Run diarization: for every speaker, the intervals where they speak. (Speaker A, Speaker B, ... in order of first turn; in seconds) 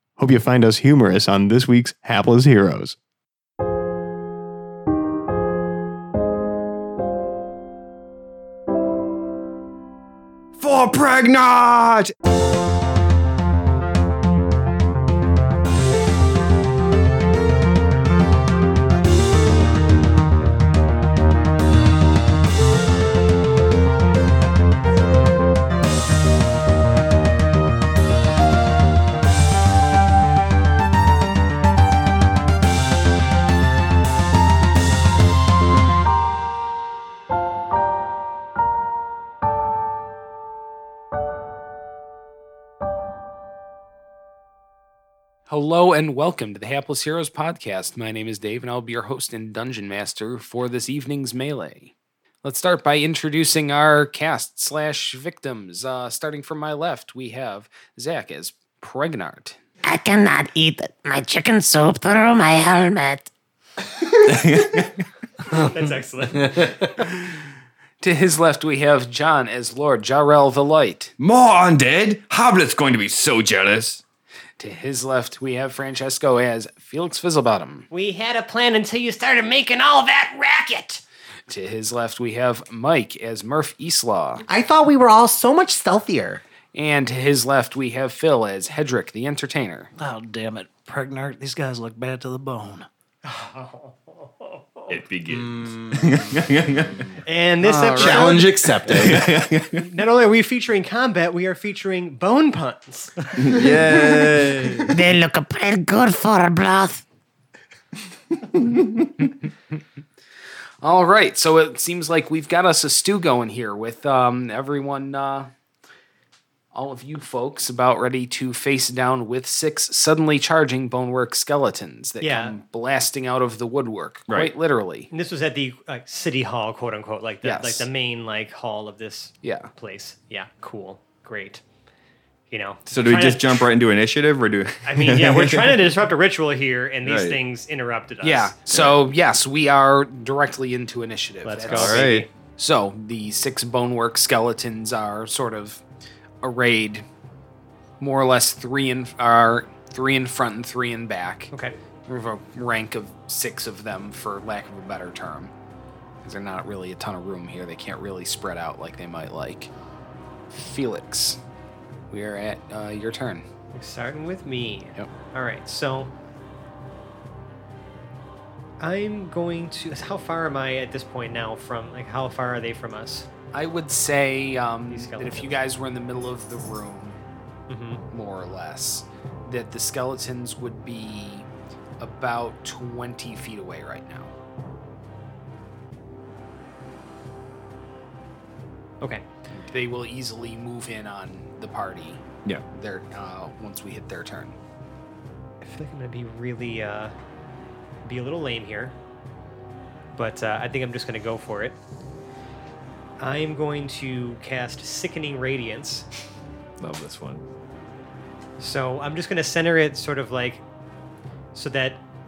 Speaker A: 0.2-3.0
Speaker B: 10.6-12.1, 64.2-65.0, 71.2-74.0, 94.9-97.1, 98.8-99.8, 103.4-105.0, 124.3-124.5, 132.9-135.8, 137.0-137.4, 138.7-139.0, 141.7-142.3, 206.8-207.4
Speaker C: 45.5-59.6, 68.0-71.1, 74.6-77.9, 81.5-84.4, 86.7-89.9, 97.8-98.4, 109.2-109.5, 110.8-115.5, 116.7-125.1, 127.4-127.9, 129.4-129.7, 138.2-145.8, 146.4-147.1, 148.0-151.5, 152.0-155.5, 156.2-159.7, 160.5-161.4, 162.1-163.4, 173.5-177.2, 178.1-181.5, 182.0-184.3, 189.5-194.6
Speaker D: 59.8-63.3, 104.9-107.0
Speaker E: 65.5-66.7, 77.9-81.0, 93.2-95.0, 97.2-98.8, 99.7-103.2, 122.2-122.6, 125.1-131.6, 132.5-133.7, 134.8-138.5, 141.4-142.3, 163.7-166.1, 168.8-173.2, 174.9-175.6, 177.7-178.0, 195.6-197.1, 198.0-198.9, 200.1-201.8, 203.2-206.1, 208.6-210.6, 211.5-212.0
Speaker F: 84.5-86.4, 95.3-96.5, 97.6-99.3, 103.8-104.4
Speaker G: 90.0-92.9